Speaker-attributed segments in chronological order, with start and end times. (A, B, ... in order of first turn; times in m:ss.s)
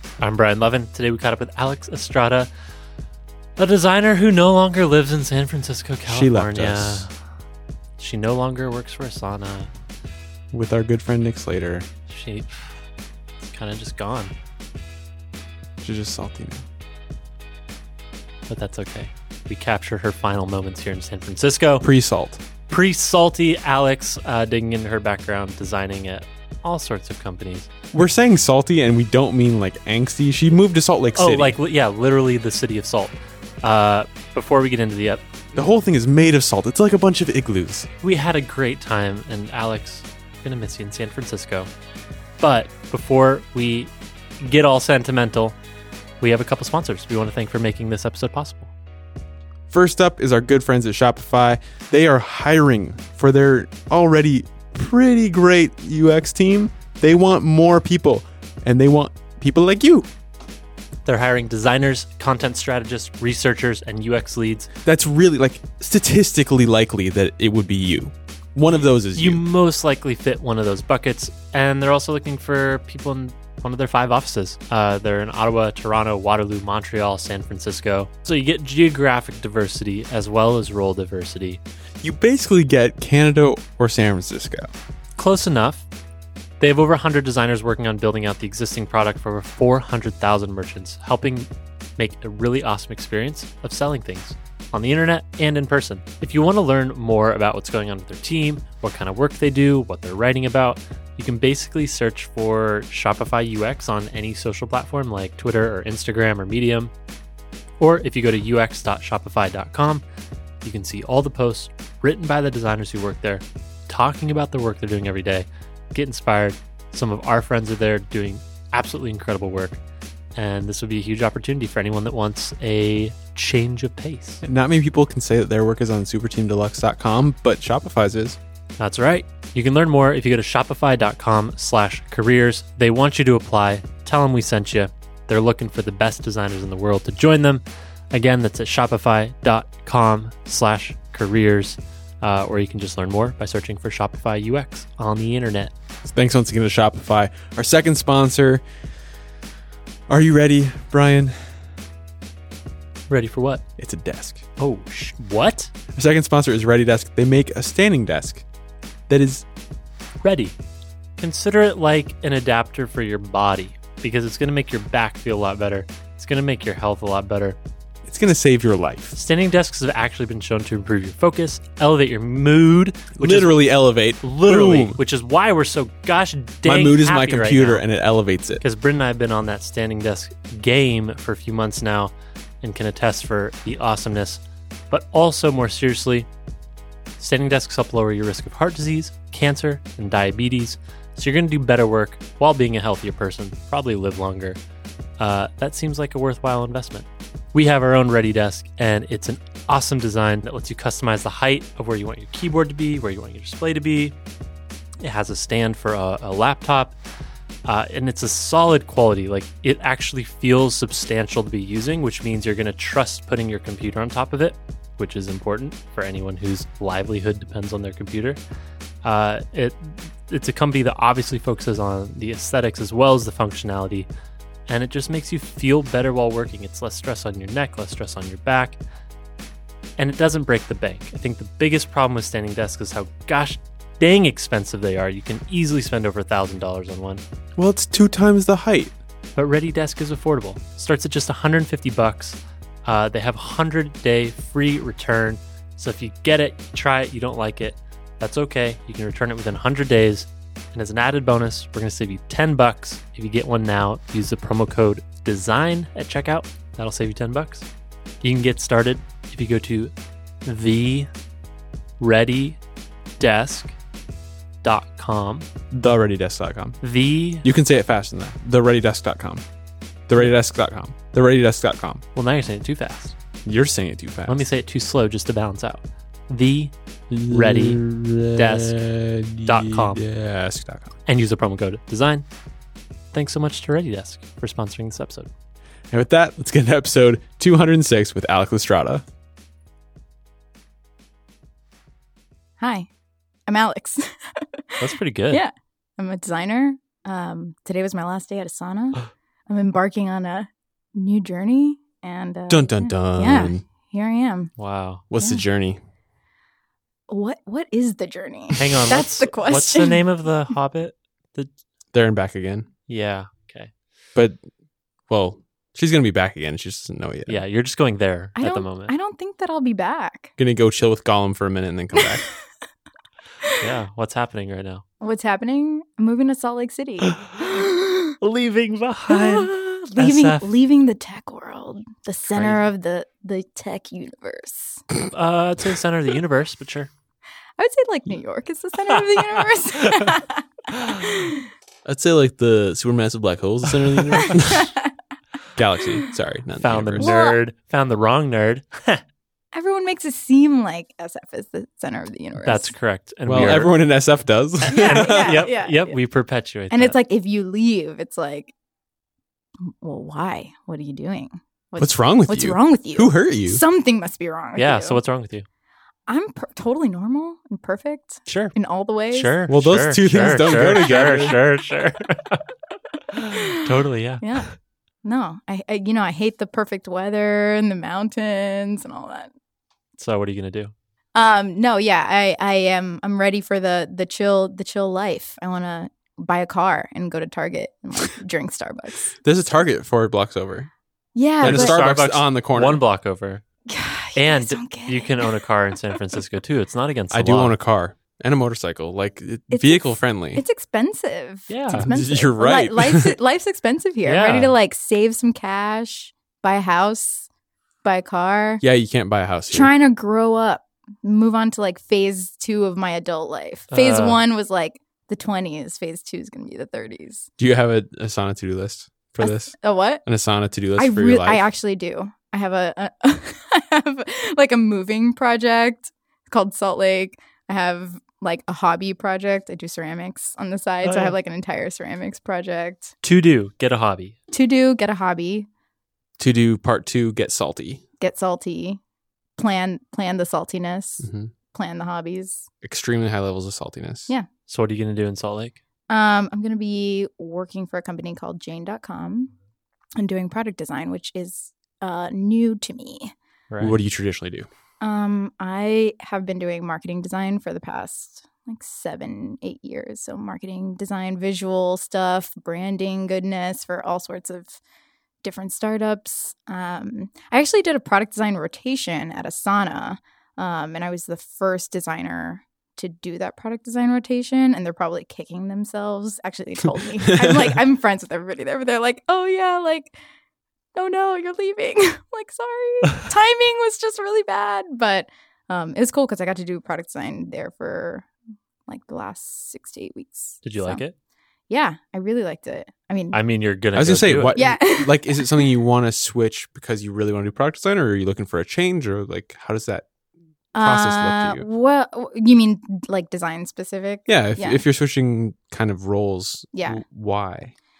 0:00.2-0:02.5 A
0:03.6-0:07.1 A
0:06.1-0:07.1 B
0:08.0-0:09.7 A
0:10.5-0:11.9 B
0:12.1-0:12.8 A
0:13.4-0:14.3 A
0:15.8-0:16.6 B
0:18.5-0:21.8 A
0:21.8-0:22.4 B
0:22.7-0:27.7 A
0:27.9-0:31.6 B
0:31.2-0:35.2 A
0:35.5-0:37.9 B
0:38.0-0:41.7 A
0:42.4-0:45.6 A
0:46.2-0:48.7 A
0:49.7-1:00.1 B
1:01.0-1:04.7 A
1:04.8-1:09.4 B
1:09.1-1:21.6 A
1:22.0-1:24.7 B
1:25.2-1:25.8 A
1:26.6-1:46.9 A
1:47.8-1:50.0 A
1:50.6-1:59.8 A
2:00.4-2:04.4 A
2:04.4-2:08.4 B
2:08.8-2:25.7 A
2:26.0-2:28.6 B
2:30.1-2:31.5 B
2:33.1-2:33.6 A
2:33.8-2:34.4 B
2:34.6-2:35.7 A
2:35.9-2:38.4 B
2:39.1-2:39.4 B
2:40.2-2:40.5 A
2:41.2-2:47.6 A
2:48.0-2:49.2 B
2:49.1-2:53.6 A
2:53.2-2:55.0 B
2:54.2-2:57.8 A
2:56.6-2:58.6 B
2:58.6-3:06.3 A
3:07.2-3:14.6 A
3:15.2-3:24.2 A
3:25.0-3:27.0 A
3:27.6-3:38.4 A
3:39.0-3:44.1 A
3:44.7-3:48.8 A
3:50.0-3:57.2 A
3:57.6-3:58.9 B
3:59.4-4:17.7 A
4:18.2-4:19.9 A
4:20.4-4:21.1 A
4:22.0-4:22.6 A
4:23.2-4:23.7 A
4:24.6-4:25.5 A
4:25.7-4:26.8 B
4:26.8-4:27.4 A
4:27.4-4:29.4 B
4:30.1-4:32.0 B
4:32.1-4:33.2 A
4:33.4-4:34.4 B
4:34.3-4:37.8 A
4:37.1-4:40.9 B
4:38.3-4:38.8 A
4:39.4-4:40.0 A
4:41.0-4:42.2 A
4:43.1-4:45.3 A
4:45.9-4:49.0 B
4:52.6-4:52.9 C
4:53.5-5:04.5 C
4:54.8-4:55.4 A
5:02.5-5:03.6 B
5:04.6-5:05.0 A
5:05.1-5:05.8 B
5:05.2-5:05.4 C
5:07.1-5:10.0 C
5:08.6-5:11.5 A
5:11.9-5:12.7 B
5:12.9-5:13.7 A
5:14.1-5:14.4 B
5:15.1-5:17.4 B
5:17.3-5:18.9 A
5:18.4-5:20.3 C
5:20.4-5:22.2 B
5:22.0-5:22.3 C
5:23.6-5:24.8 A
5:25.0-5:28.2 C
5:27.0-5:27.6 A
5:28.2-5:30.5 A
5:29.1-5:34.9 C
5:32.3-5:32.6 A
5:35.0-5:36.9 A
5:37.6-5:41.5 C
5:39.0-5:40.0 A
5:40.7-5:41.1 A
5:41.8-5:44.7 B
5:44.3-5:44.9 C
5:45.5-5:47.1 B
5:46.6-5:49.0 A
5:47.0-5:47.4 C
5:49.5-5:52.7 C
5:52.4-5:53.8 A
5:53.3-5:55.4 B
5:54.7-5:56.0 C
5:54.7-5:56.9 A
5:56.7-5:58.5 C
5:59.6-6:05.0 C
6:01.8-6:03.6 B
6:04.6-6:05.4 A
6:06.1-6:09.3 C
6:08.3-6:08.5 A
6:09.1-6:12.5 A
6:09.5-6:11.4 B
6:10.1-6:11.2 C
6:13.1-6:14.3 A
6:14.2-6:14.5 C
6:15.0-6:19.3 C
6:20.0-6:20.7 A
6:21.1-6:29.2 C
6:29.2-6:30.7 B
6:31.2-6:31.8 C
6:31.4-6:32.8 B
6:31.4-6:33.4 A
6:33.7-6:35.4 C
6:34.1-6:37.5 A
6:37.1-6:40.4 B
6:39.5-6:47.3 C
6:41.5-6:41.9 A
6:41.7-6:43.1 B
6:44.0-6:44.5 A
6:47.8-6:48.6 C
6:48.6-6:49.7 B
6:49.5-6:57.3 C
6:53.7-6:54.2 A
6:57.4-6:59.5 B
6:59.2-7:00.0 C
7:00.0-7:01.4 B
7:00.8-7:12.9 C
7:10.8-7:11.2 A
7:13.0-7:14.2 A
7:14.3-7:15.5 C
7:16.2-7:17.8 B
7:18.0-7:18.8 C
7:19.4-7:22.5 C
7:21.0-7:21.3 B
7:22.6-7:24.1 B
7:24.5-7:25.6 A
7:25.9-7:29.3 C
7:30.0-7:33.1 C
7:33.5-7:33.8 A
7:33.6-7:34.5 B
7:34.8-7:44.6 C
7:45.2-7:59.9 C
7:57.0-7:57.6 B
8:00.7-8:08.1 C
8:08.7-8:10.8 C
8:10.4-8:10.9 A
8:11.5-8:13.2 C
8:13.1-8:14.4 A
8:13.8-8:19.9 B
8:14.3-8:15.5 C
8:20.5-8:24.6 C
8:20.6-8:21.4 B
8:24.1-8:27.5 B
8:26.5-8:26.8 C